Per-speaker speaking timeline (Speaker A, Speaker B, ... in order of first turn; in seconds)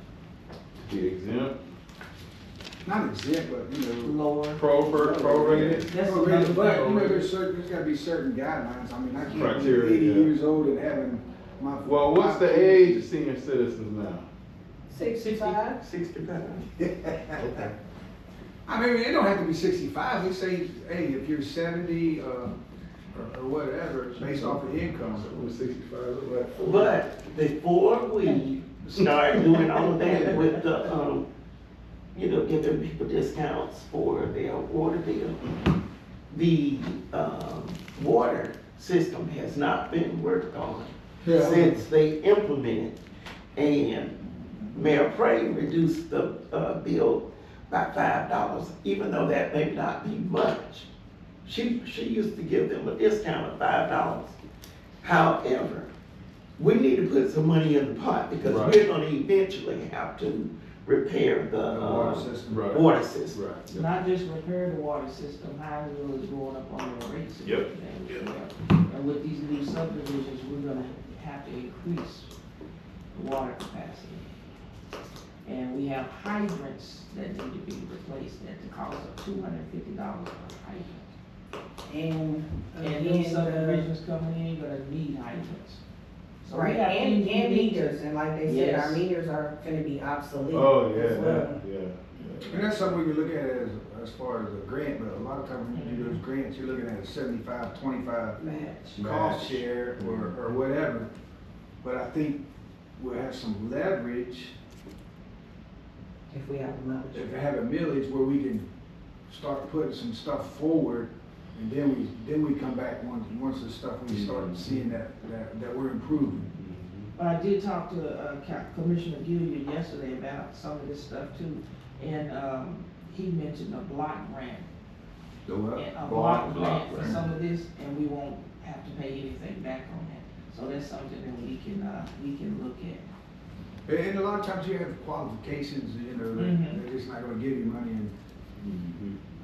Speaker A: 0.8-1.6, 4.5-7.1, 9.3-10.3, 11.8-14.2, 17.4-17.7, 24.2-26.9, 58.4-58.8, 62.5-63.9, 90.5-93.0, 99.0-100.5, 114.1-114.9, 116.5-117.1, 126.0-127.2, 138.6-139.2
Speaker B: 2.9-4.2, 4.9-13.0, 16.8-17.6, 18.7-22.6, 23.1-25.4, 28.8-30.5, 41.2-41.8, 61.7-62.7, 92.5-98.4, 99.0-101.1, 101.8-102.4, 103.0-104.5, 107.1-108.7, 109.3-116.5, 125.5-126.0, 127.0-127.2, 133.9-138.1
Speaker C: 4.0-4.6, 5.8-7.2, 63.7-72.3, 73.1-74.2, 75.4-81.1, 82.8-85.8, 86.4-89.0, 95.7-96.2, 117.2-124.7, 125.7-133.1, 136.3-136.8
Speaker D: 14.9-15.8, 81.9-83.9, 86.5-91.6, 98.4-99.0, 106.3-107.4
Speaker E: 15.3-16.7, 26.6-31.2, 32.1-35.4, 36.3-43.0, 43.5-44.2, 44.7-50.9, 51.4-54.4, 55.0-55.9, 56.6-63.4